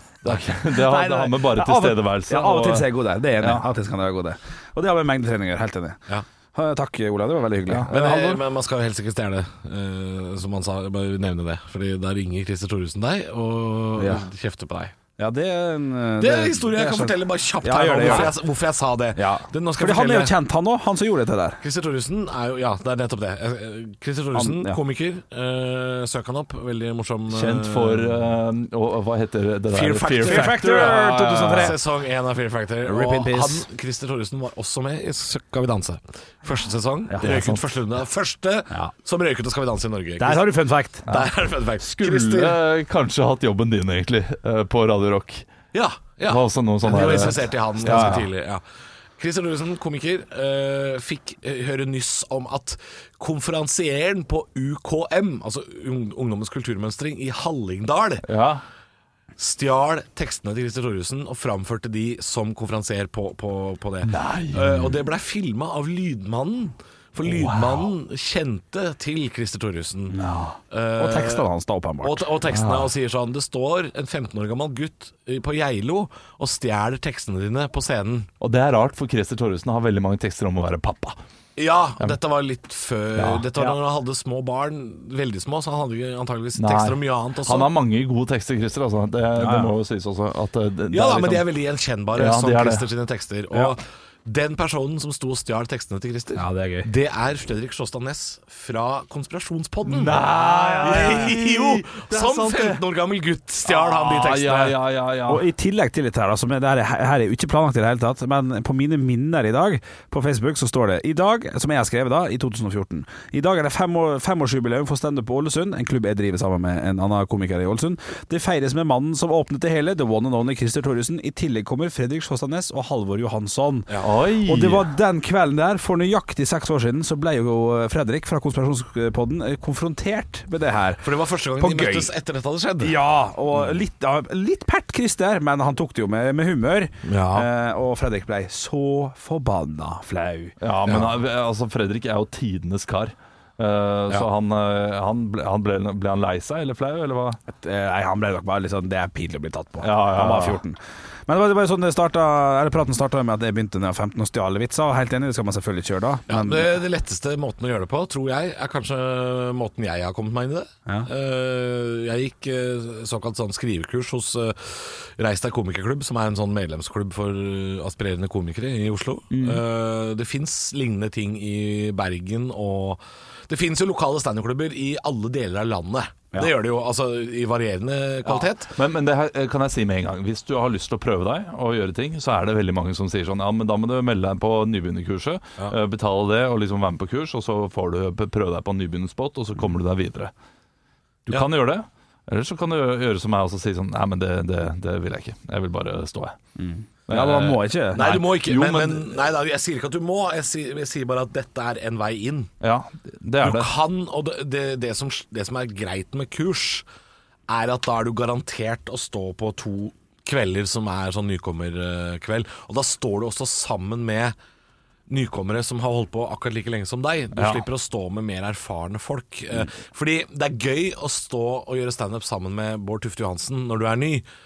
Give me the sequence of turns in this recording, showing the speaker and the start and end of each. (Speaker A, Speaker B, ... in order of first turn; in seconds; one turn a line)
Speaker A: 0.2-3.6
Speaker B: 0.7-6.0
Speaker B: 6.5-8.4
Speaker A: 7.7-8.3
Speaker C: 7.9-14.9
Speaker B: 14.0-14.2
Speaker B: 15.2-18.3
Speaker C: 16.2-20.3
Speaker B: 19.1-21.6
Speaker C: 21.6-28.3
Speaker B: 24.3-24.8
Speaker A: 27.3-31.7
Speaker C: 29.7-40.5
Speaker B: 30.2-31.8
Speaker B: 32.8-33.6
Speaker B: 37.1-37.4
Speaker A: 37.2-37.6
Speaker B: 40.2-41.0
Speaker C: 41.0-42.6
Speaker A: 41.1-45.5
Speaker C: 45.7-48.6
Speaker A: 46.3-48.1
Speaker B: 47.0-48.3
Speaker C: 49.2-58.2
Speaker A: 58.2-58.6
Speaker C: 59.4-70.2
Speaker A: 64.0-64.9
Speaker A: 67.3-67.8
Speaker B: 70.1-72.3
Speaker C: 70.7-71.4
Speaker C: 72.0-78.3
Speaker A: 72.5-72.9
Speaker A: 78.4-81.2
Speaker C: 81.5-87.7
Speaker A: 83.2-83.7
Speaker A: 86.6-91.5
Speaker B: 89.4-89.7
Speaker C: 90.9-100.2
Speaker A: 92.1-92.8
Speaker B: 96.3-96.9
Speaker A: 99.8-102.8
Speaker B: 100.2-101.3
Speaker C: 100.8-104.8
Speaker A: 103.6-105.5
Speaker B: 105.3-123.9
Speaker A: 124.0-124.9
Speaker B: 124.4-132.1
Speaker C: 131.0-132.9
Speaker B: 132.8-140.5
Speaker C: 137.0-137.5
Speaker A: 140.6-147.4
Speaker C: 140.9-141.1
Speaker B: 147.5-156.7
Speaker A: 149.8-150.6
Speaker C: 156.3-178.7
Speaker B: 169.3-169.6
Speaker A: 178.3-190.3
Speaker A: 191.3-196.3
Speaker B: 196.6-198.2
Speaker A: 197.1-199.2
Speaker C: 197.9-202.5
Speaker A: 202.6-203.7
Speaker C: 203.4-206.8
Speaker C: 207.5-214.3
Speaker C: 215.1-224.2
Speaker A: 217.3-217.6